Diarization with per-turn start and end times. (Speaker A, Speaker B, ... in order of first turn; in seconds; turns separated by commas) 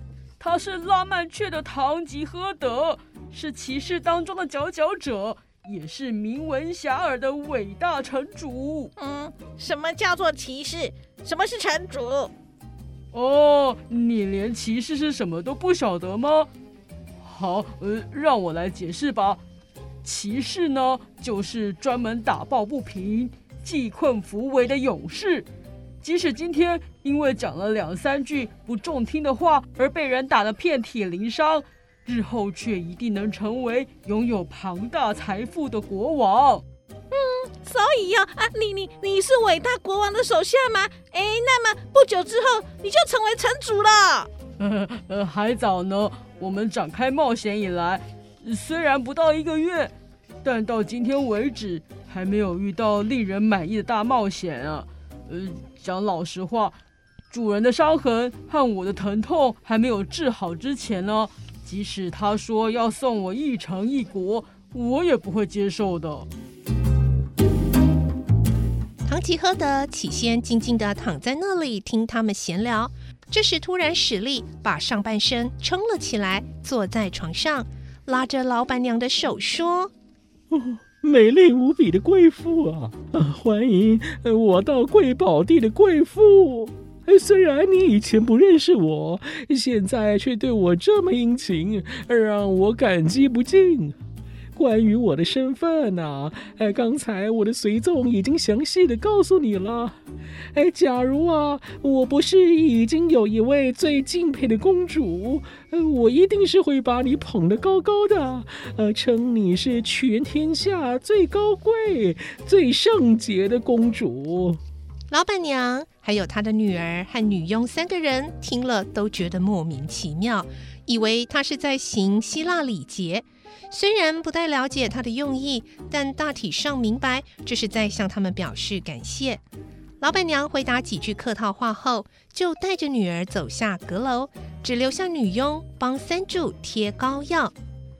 Speaker A: 0.4-8.9, Speaker B: 9.0-12.3, Speaker A: 13.1-16.5, Speaker A: 17.2-19.4, Speaker A: 20.0-25.5, Speaker A: 26.0-36.6, Speaker B: 37.1-44.3, Speaker A: 44.6-49.9, Speaker A: 50.4-56.8, Speaker A: 57.3-66.3, Speaker C: 69.1-79.9, Speaker D: 80.5-94.0, Speaker D: 94.5-100.0, Speaker D: 100.5-114.6, Speaker C: 115.1-129.4, Speaker C: 130.0-137.5